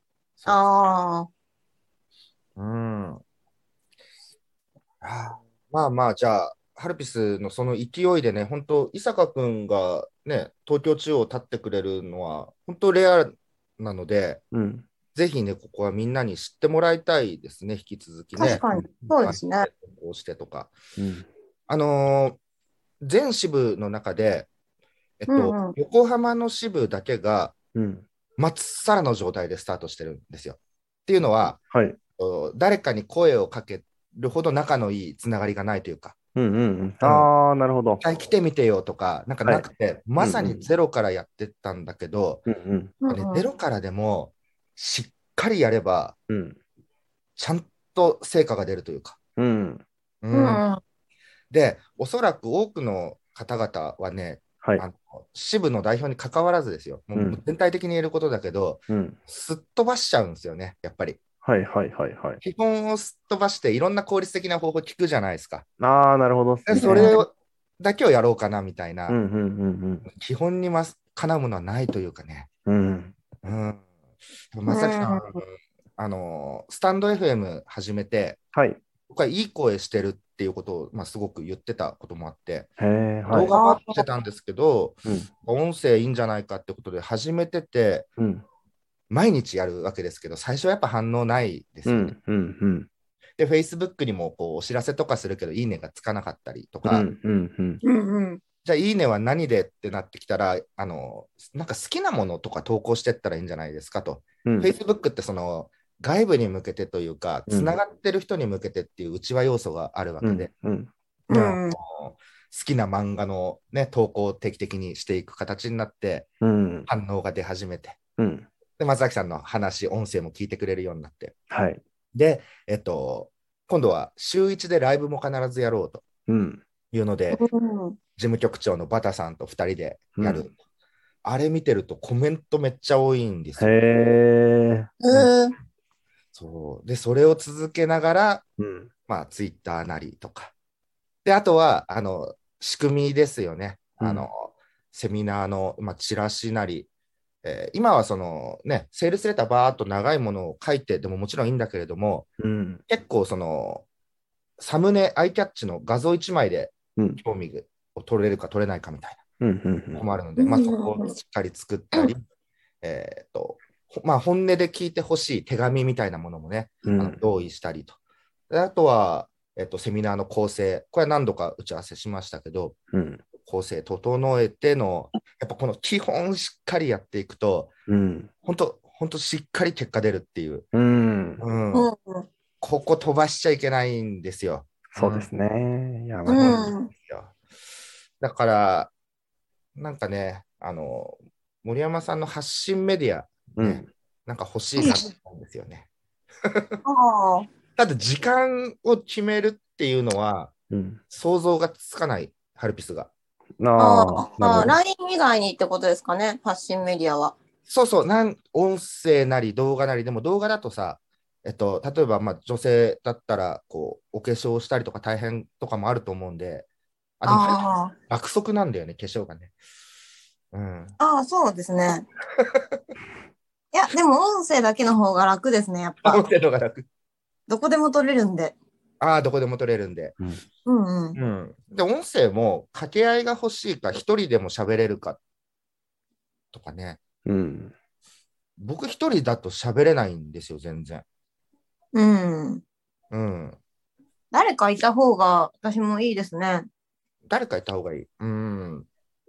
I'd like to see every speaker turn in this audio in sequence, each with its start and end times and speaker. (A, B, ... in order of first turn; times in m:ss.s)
0:00.5-0:01.3 A
0:02.6-0:03.2 B
0:05.0-0:14.4 B
0:14.5-0:14.9 C
0:15.1-0:20.7 B
0:18.4-0:19.7 A
0:21.0-0:21.3 C
0:21.7-0:22.4 B
0:23.0-0:24.5 B
0:25.2-0:27.5 B
0:25.3-0:25.8 A
0:27.7-0:28.0 C
0:28.4-0:31.6 B
0:31.7-0:32.0 C
0:32.2-0:36.2 B
0:36.4-0:38.0 C
0:37.0-0:37.3 B
0:38.0-0:42.4 B
0:40.2-0:40.6 C
0:42.5-0:42.9 C
0:43.0-0:43.4 A
0:43.1-0:46.1 B
0:46.3-0:46.6 C
0:47.4-0:49.2 B
0:49.4-0:49.8 C
0:50.2-0:50.6 B
0:50.3-0:50.8 A
0:51.5-1:01.2 B
0:57.1-0:57.4 C
0:58.9-0:59.2 C
1:01.4-1:02.4 C
1:02.4-1:05.6 B
1:05.8-1:07.2 C
1:06.6-1:09.2 B
1:06.7-1:07.2 A
1:09.1-1:10.0 C
1:10.1-1:12.5 B
1:12.6-1:13.1 C
1:13.4-1:13.8 B
1:14.5-1:15.4 B
1:14.7-1:15.4 A
1:16.0-1:18.4 B
1:18.5-1:18.8 C
1:19.1-1:22.7 B
1:22.8-1:23.5 C
1:23.3-1:28.1 B
1:23.5-1:24.0 A
1:28.2-1:28.4 C
1:29.1-1:32.1 B
1:31.8-1:32.9 C
1:33.4-1:37.1 B
1:36.8-1:37.8 C
1:37.8-1:38.4 A
1:38.6-1:50.5 B
1:44.4-1:44.7 C
1:47.5-1:47.8 C
1:50.2-1:51.5 C
1:51.3-1:51.8 A
1:51.7-1:56.3 B
1:56.4-1:56.9 C
1:56.9-1:58.0 B
1:58.2-1:58.5 C
1:58.8-2:01.3 B
2:01.5-2:01.8 C
2:02.1-2:06.0 B
2:06.3-2:06.6 C
2:06.9-2:07.4 B
2:07.3-2:08.0 A
2:08.2-2:10.5 B
2:10.2-2:10.4 C
2:11.2-2:13.7 B
2:13.6-2:14.9 C
2:15.0-2:15.5 A
2:16.3-2:18.4 B
2:18.6-2:18.9 C
2:19.1-2:20.5 B
2:21.2-2:26.9 B
2:24.0-2:24.3 C
2:27.4-2:32.3 B
2:32.4-2:32.8 C
2:32.9-2:33.8 B
2:34.6-2:39.2 B
2:39.4-2:40.0 C
2:39.9-2:42.2 B
2:40.4-2:41.1 A
2:42.8-2:48.0 B
2:46.8-2:47.2 C
2:48.5-2:52.8 B
2:52.9-2:53.2 C
2:53.4-2:57.7 B
2:57.9-2:58.3 C
2:58.4-3:00.6 B
3:00.7-3:01.4 C
3:01.4-3:01.9 B
3:01.7-3:02.3 A
3:02.6-3:05.3 B
3:04.9-3:06.7 C
3:06.2-3:07.3 B
3:06.3-3:06.9 A
3:08.2-3:08.9 B
3:09.8-3:15.9 B
3:13.6-3:13.9 C
3:16.4-3:16.8 B
3:16.8-3:17.5 A
3:17.8-3:20.5 B
3:20.7-3:21.0 C
3:21.1-3:23.1 B
3:23.6-3:24.7 C
3:23.8-3:27.4 A
3:27.6-3:36.7 B
3:37.2-3:39.5 B
3:37.2-3:37.9 A
3:40.5-3:41.0 B
3:41.0-3:42.0 A
3:42.4-3:42.8 B
3:43.7-3:46.3 A
3:46.0-3:46.8 B
3:47.5-3:48.5 A
3:49.0-3:50.1 B
3:50.6-3:51.2 A
3:51.2-3:55.2 B
3:56.5-3:57.0 B
3:57.2-3:57.7 C
3:58.6-4:01.0 B
4:01.9-4:02.6 A
4:03.1-4:03.6 B
4:04.3-4:06.7 A
4:07.2-4:08.9 B